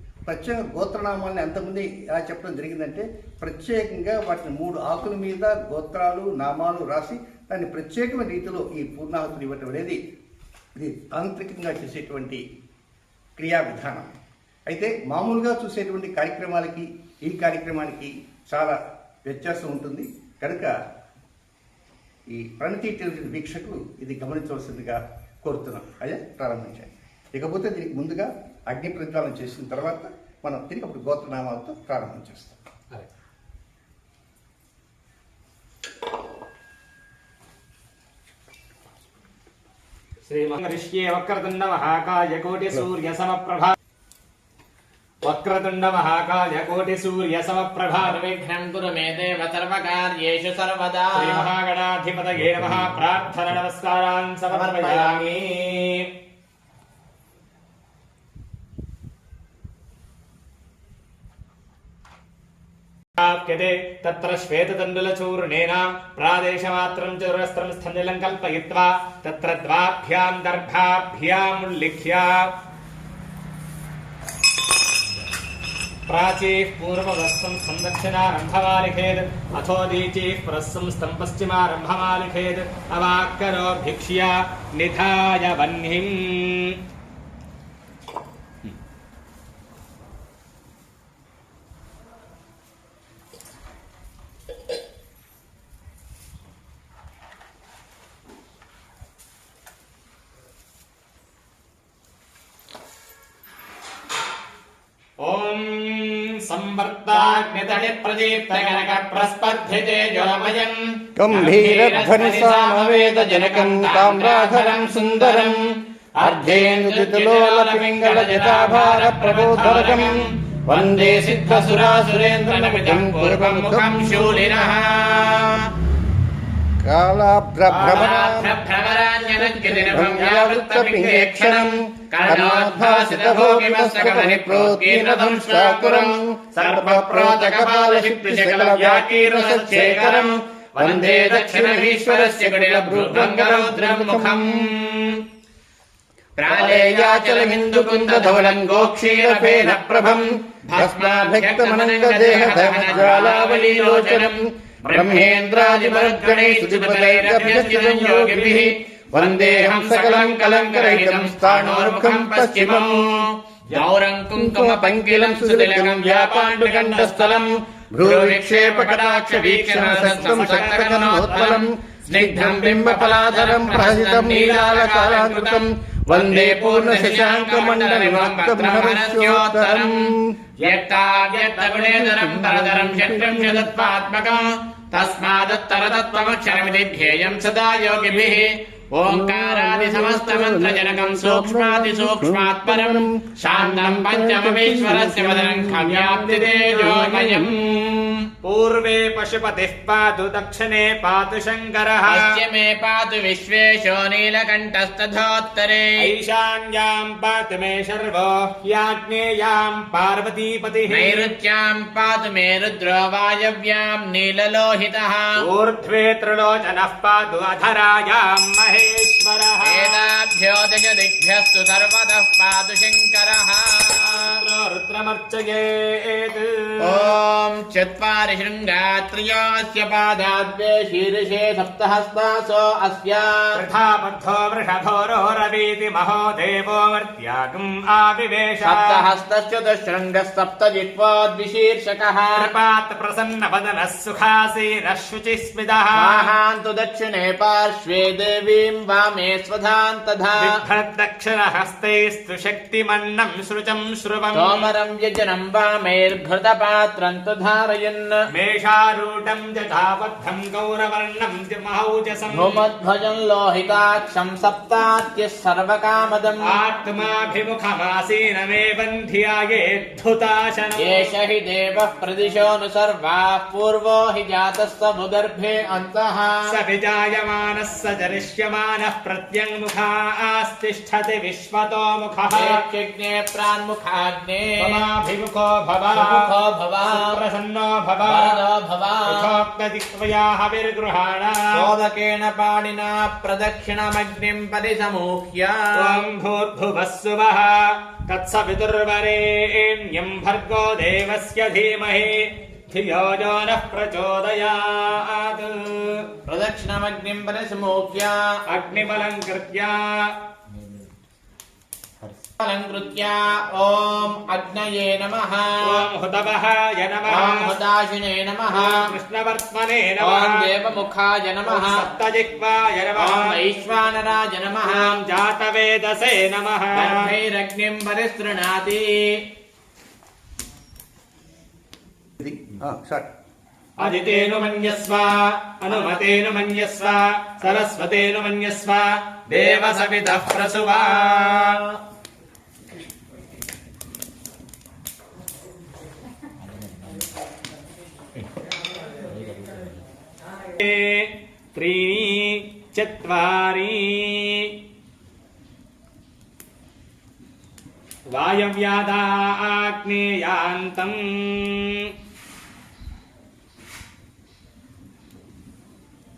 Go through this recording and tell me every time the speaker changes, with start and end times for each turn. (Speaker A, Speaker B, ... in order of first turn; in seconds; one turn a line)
Speaker A: 0.2-10.0
Speaker A: 10.8-12.4
Speaker A: 13.4-14.1
Speaker A: 14.7-20.8
Speaker A: 22.3-32.6
Speaker B: 40.2-43.7
Speaker B: 45.2-48.2
Speaker C: 48.0-51.5
Speaker B: 51.1-56.1
Speaker C: 54.5-55.5
Speaker B: 63.2-72.5
Speaker B: 76.1-86.8
Speaker B: 105.2-110.7
Speaker C: 107.1-125.7
Speaker D: 111.2-125.4
Speaker B: 111.3-112.4
Speaker B: 119.2-120.2
Speaker D: 126.8-128.4
Speaker B: 127.7-128.6
Speaker C: 127.8-144.9
Speaker D: 129.4-144.7
Speaker B: 129.7-130.5
Speaker B: 136.5-141.8
Speaker B: 142.9-145.2
Speaker C: 146.4-167.5
Speaker D: 146.5-163.2
Speaker B: 152.3-153.3
Speaker B: 156.3-158.7
Speaker B: 161.5-162.2
Speaker D: 164.3-180.4
Speaker B: 165.9-167.5
Speaker C: 168.0-175.4
Speaker B: 168.0-171.7
Speaker B: 173.3-175.7
Speaker C: 176.1-197.7
Speaker B: 176.3-177.6
Speaker B: 180.6-183.6
Speaker D: 182.1-183.8
Speaker B: 185.3-188.5
Speaker D: 189.1-198.2
Speaker B: 196.7-197.6
Speaker B: 198.4-202.4
Speaker C: 202.1-206.1
Speaker B: 206.0-211.3
Speaker C: 210.9-215.4
Speaker B: 215.4-220.0
Speaker C: 219.6-224.4
Speaker B: 223.9-227.1
Speaker C: 226.8-233.6
Speaker B: 233.5-239.0
Speaker C: 238.6-242.4
Speaker B: 242.3-246.3
Speaker C: 245.9-250.6
Speaker B: 250.4-254.7
Speaker C: 254.3-258.2
Speaker B: 258.3-262.6
Speaker C: 262.3-266.6
Speaker B: 266.4-271.1
Speaker C: 270.8-276.5
Speaker B: 276.5-282.6
Speaker C: 282.3-284.8
Speaker B: 284.6-286.2
Speaker C: 285.9-287.2
Speaker B: 286.8-288.4
Speaker C: 288.0-289.3
Speaker B: 289.1-291.7
Speaker C: 291.5-296.0
Speaker B: 295.7-306.1
Speaker C: 306.3-308.4
Speaker B: 308.5-310.2
Speaker C: 312.4-315.8
Speaker B: 315.6-317.6
Speaker C: 317.1-318.9
Speaker B: 318.5-320.5
Speaker C: 320.0-321.9
Speaker B: 321.5-323.4
Speaker C: 323.0-325.0
Speaker B: 324.6-327.1
Speaker C: 326.7-329.2
Speaker A: 332.2-333.1
Speaker B: 333.8-341.6
Speaker C: 333.8-335.0
Speaker C: 335.7-336.1
Speaker C: 339.3-341.8
Speaker B: 350.6-354.6
Speaker B: 358.1-361.9